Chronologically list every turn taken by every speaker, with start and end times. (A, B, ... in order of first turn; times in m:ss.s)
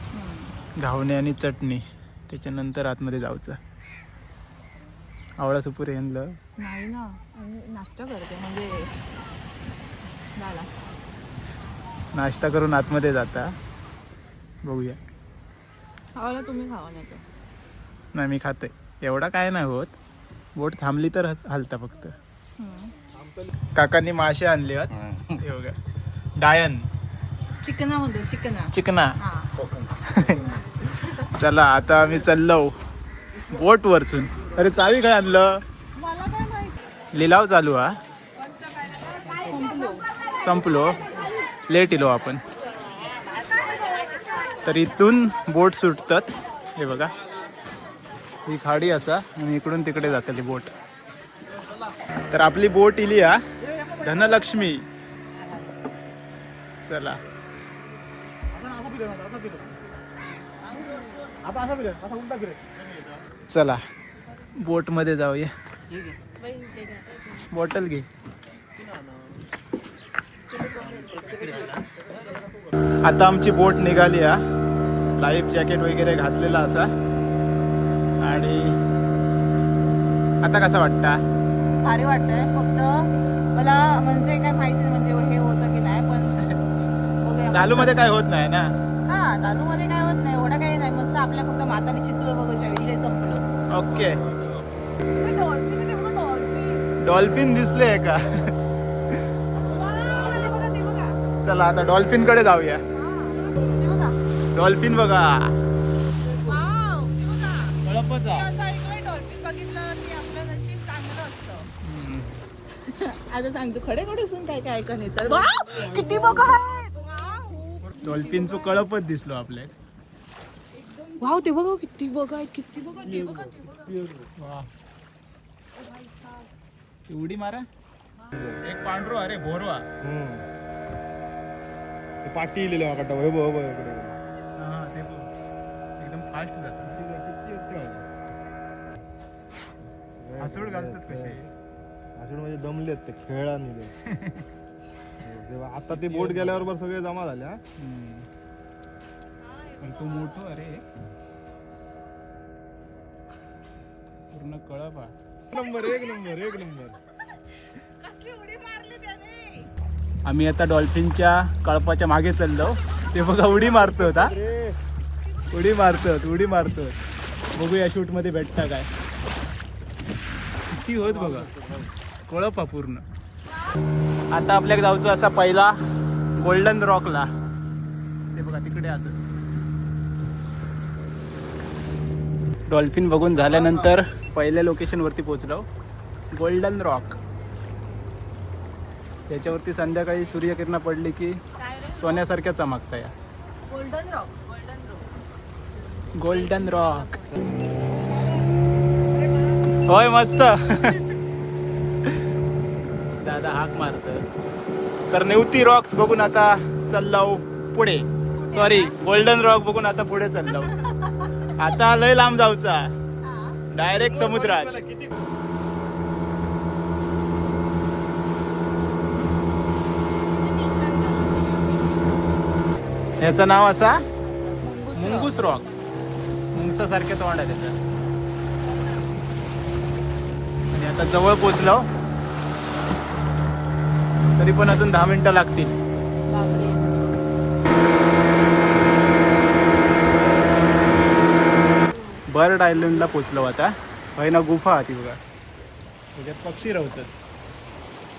0:00.1-0:00.6 A
0:00.8-0:03.6 B
0:05.4-0:06.4 B
0:06.6-0:08.9 A
0:10.4-0:10.7 A
0:12.1-0:13.6 B
0:14.6-0:15.0 B
0:16.2-0:17.2 A
0:18.1-0:19.9 B
0:20.6-0:22.2 B
0:22.6-0:22.9 A
0:23.2-0:23.5 C
0:23.8-0:25.8 B
0:26.4-0:26.9 B
0:27.6-0:29.5 A
0:28.7-0:29.2 B
0:29.7-0:30.5 B
0:31.2-0:32.8 B
0:33.5-0:35.6 B
0:36.0-0:36.8 A
0:37.1-0:38.0 B
0:38.6-0:40.0 A
0:40.4-0:41.0 B
0:41.7-0:42.4 B
0:44.6-0:47.1 B
0:48.5-0:50.7 B
0:52.3-0:53.4 B
0:53.9-0:54.8 B
0:56.8-0:57.2 B
0:58.6-0:59.7 C
1:01.4-1:02.7 C
1:03.5-1:03.8 B
1:04.6-1:05.5 B
1:06.3-1:07.4 A
1:07.5-1:08.1 B
1:10.9-1:11.6 C
1:13.0-1:14.4 B
1:15.2-1:16.9 B
1:18.2-1:18.8 B
1:20.4-1:21.2 B
1:21.8-1:26.4 A
1:27.2-1:28.1 A
1:27.5-1:28.7 B
1:29.1-1:33.5 A
1:33.7-1:34.2 B
1:35.2-1:36.9 A
1:37.0-1:38.5 B
1:39.6-1:41.2 A
1:41.4-1:42.8 B
1:42.9-1:44.2 A
1:44.5-1:45.5 B
1:46.4-1:51.7 A
1:47.8-1:48.5 B
1:51.8-1:52.4 B
1:52.8-1:58.8 A
1:57.9-1:59.8 B
2:01.0-2:04.0 A
2:03.2-2:04.3 C
2:04.4-2:04.7 B
2:05.8-2:06.5 A
2:07.1-2:07.7 B
2:08.3-2:08.6 C
2:08.6-2:09.9 B
2:10.0-2:10.4 C
2:12.2-2:14.2 C
2:14.6-2:15.3 B
2:16.0-2:17.0 B
2:16.8-2:18.0 C
2:20.2-2:21.4 C
2:20.4-2:21.5 B
2:22.2-2:23.9 C
2:24.1-2:24.5 B
2:25.2-2:27.6 C
2:25.9-2:26.7 B
2:27.8-2:28.3 B
2:29.4-2:30.4 A
2:29.8-2:30.8 B
2:34.3-2:35.1 B
2:35.5-2:37.0 C
2:35.5-2:39.7 A
2:40.2-2:44.4 B
2:43.4-2:44.8 C
2:45.5-2:47.0 B
2:47.5-2:48.9 B
2:50.7-2:51.5 B
2:51.0-2:51.9 C
2:52.3-2:53.0 B
2:54.3-2:55.8 B
2:56.4-2:57.3 B
2:58.3-2:59.2 B
3:02.7-3:05.7 B
3:06.3-3:07.2 B
3:09.3-3:13.1 B
3:11.7-3:12.0 A
3:13.7-3:15.1 A
3:16.2-3:17.2 B
3:16.3-3:17.3 A
3:19.2-3:19.6 A
3:19.9-3:21.0 B
3:23.2-3:24.2 B
3:25.1-3:30.8 B
3:28.4-3:29.0 A
3:30.6-3:31.7 A
3:31.5-3:32.9 B
3:33.2-3:33.6 A
3:33.7-3:34.8 B
3:34.2-3:35.2 C
3:40.4-3:42.0 A
3:43.2-3:44.0 B
3:44.3-3:45.9 A
3:45.0-3:45.7 B
3:46.5-3:47.8 B
3:48.7-3:49.0 A
3:50.7-3:51.9 B
3:54.4-3:55.8 B
3:56.3-3:57.2 A
4:02.3-4:05.2 B
4:06.2-4:07.1 B